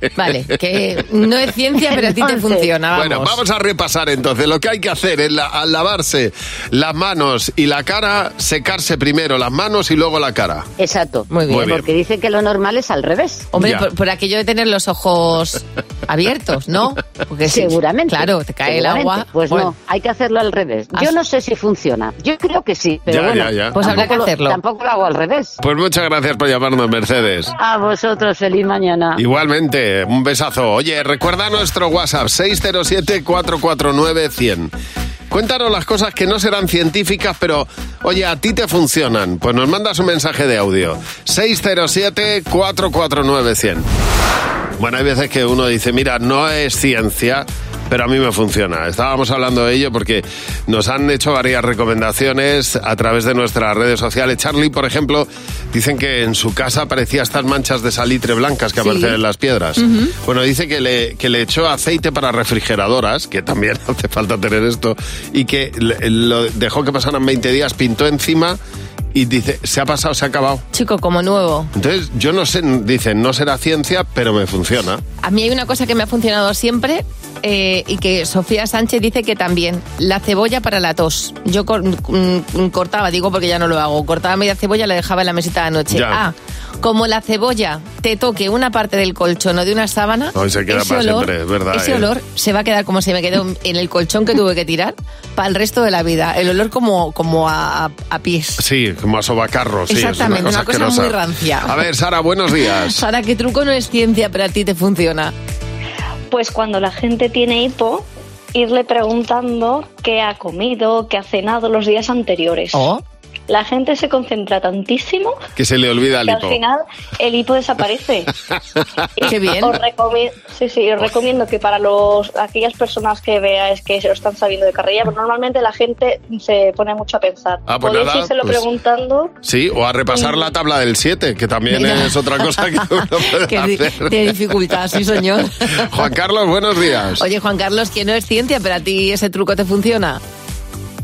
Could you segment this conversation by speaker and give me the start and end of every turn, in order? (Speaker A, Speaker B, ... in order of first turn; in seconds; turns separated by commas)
Speaker A: 0.2-3.4, Speaker B: 2.9-10.7, Speaker C: 10.8-13.5, Speaker A: 11.3-11.7, Speaker B: 11.5-11.9, Speaker A: 13.5-19.7, Speaker B: 13.6-13.9, Speaker C: 17.5-25.6, Speaker B: 23.1-24.0, Speaker A: 23.8-24.6, Speaker B: 25.6-27.5, Speaker C: 27.6-29.2, Speaker B: 29.2-34.7, Speaker B: 35.3-43.9, Speaker B: 44.8-68.6, Speaker A: 58.8-59.2, Speaker A: 59.8-60.1, Speaker B: 69.1-70.6, Speaker A: 70.7-71.7, Speaker B: 71.8-75.0, Speaker A: 75.2-98.6, Speaker B: 85.9-86.2, Speaker B: 90.3-92.1, Speaker B: 98.6-103.0, Speaker A: 99.9-101.7, Speaker A: 102.8-105.3, Speaker D: 106.3-112.9, Speaker A: 112.7-113.0, Speaker D: 113.5-115.4, Speaker B: 115.6-116.6, Speaker D: 116.2-118.3, Speaker D: 119.2-129.3, Speaker A: 119.3-119.8, Speaker B: 127.7-128.7, Speaker B: 129.4-134.1, Speaker A: 131.7-132.6, Speaker A: 133.4-135.9, Speaker B: 135.8-137.2, Speaker A: 137.2-140.2